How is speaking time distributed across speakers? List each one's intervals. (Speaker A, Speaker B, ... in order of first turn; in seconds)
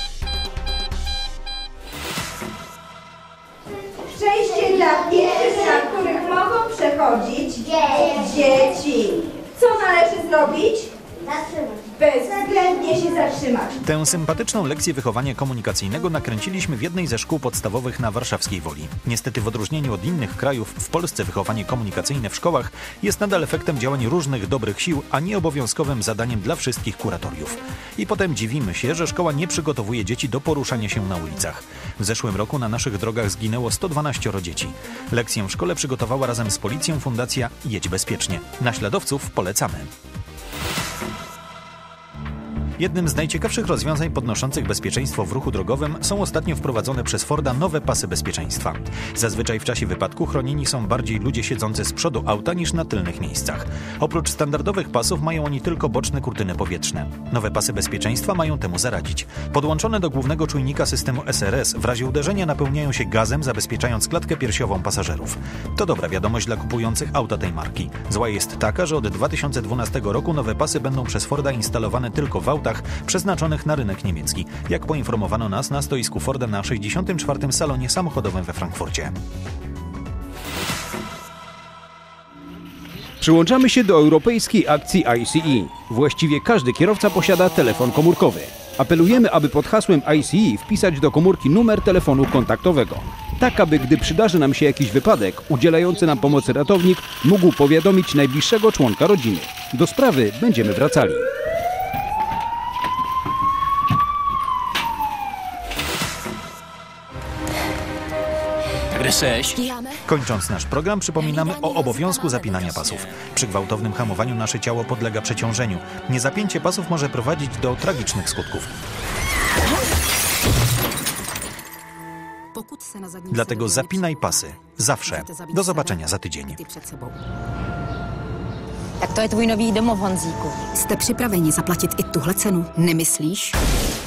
Speaker A: 4.0-13.7
Speaker B: 13.8-39.9, 42.8-79.1, 110.0-118.7, 123.3-126.6
Speaker C: 83.2-101.2, 108.9-109.6
Speaker D: 109.7-109.9, 111.4-112.1, 129.0-130.7
Speaker E: 122.5-127.2, 130.7-133.6